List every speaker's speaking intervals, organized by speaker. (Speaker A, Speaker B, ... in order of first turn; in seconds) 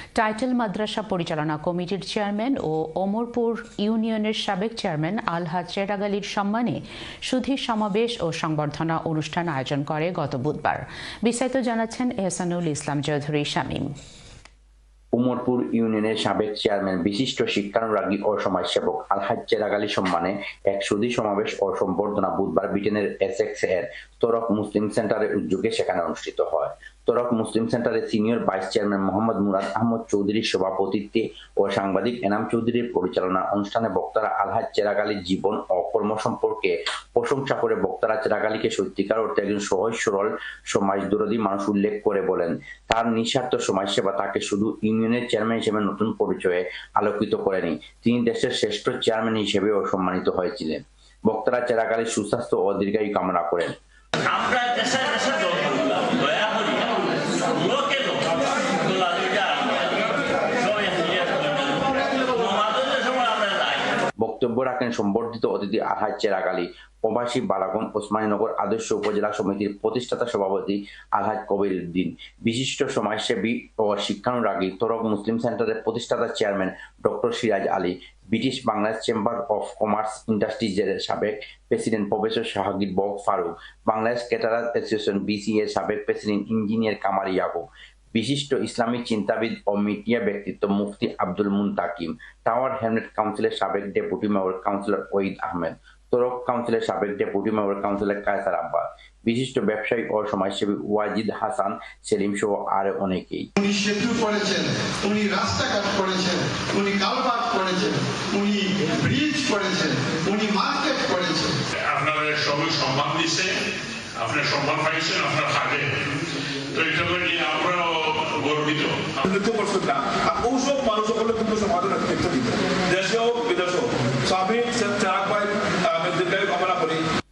Speaker A: 0.1-13.9
Speaker B: 15.2-53.8, 64.2-103.5
Speaker C: 54.3-55.6, 56.2-56.8, 57.6-58.2, 62.6-63.4
Speaker D: 54.8-56.1, 58.3-59.8, 60.8-61.9, 62.4-62.9, 111.8-113.6, 114.2-116.1, 116.7-119.2
Speaker E: 103.6-111.6
Speaker F: 119.2-127.0